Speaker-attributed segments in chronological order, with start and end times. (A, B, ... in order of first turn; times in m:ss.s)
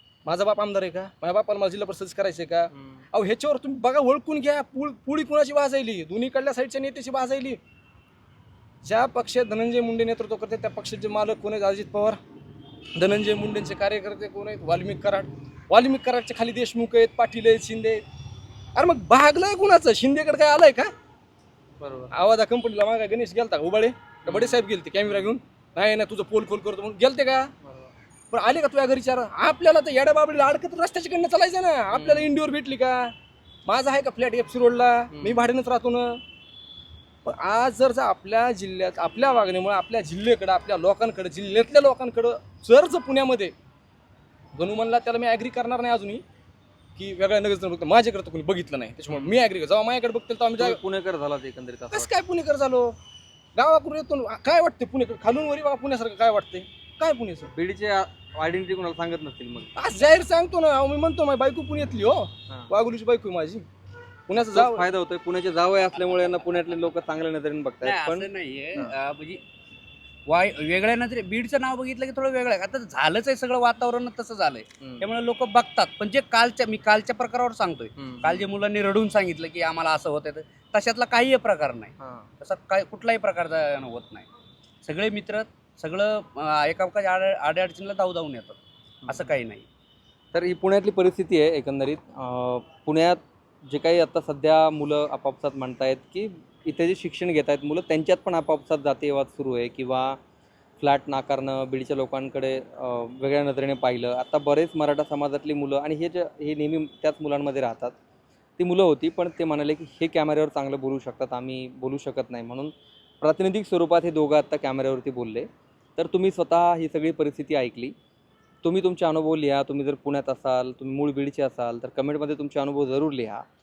0:00.2-0:07.6 A
0:02.7-0:03.0 B
0:08.8-0:12.2 A
0:13.0-0:18.0 A
0:18.7-0:20.9 A
0:21.8-0:22.1 B
0:22.1-0:27.5 A
0:24.2-0:25.3 B
0:27.6-0:27.9 B
0:28.3-0:33.1 A
0:31.9-0:32.3 B
0:33.6-0:36.2 A
0:35.1-0:35.4 B
0:37.2-0:43.5 A
0:44.5-0:46.2 A
0:47.0-0:50.8 A
0:49.1-0:49.4 B
0:50.6-0:52.1 B
0:51.9-0:53.0 A
0:53.5-0:57.5 A
0:57.5-0:59.7 B
0:59.7-1:03.6 A
1:04.3-1:04.8 A
1:04.3-1:08.9 B
1:07.8-1:09.4 C
1:10.3-1:24.3 C
1:14.8-1:15.1 B
1:18.0-1:18.5 B
1:22.0-1:22.2 B
1:24.8-1:28.6 C
1:29.0-1:29.3 B
1:29.1-1:29.6 C
1:30.3-1:40.2 B
1:40.8-1:47.9 B
1:48.6-1:57.9 B
1:58.6-2:03.4 B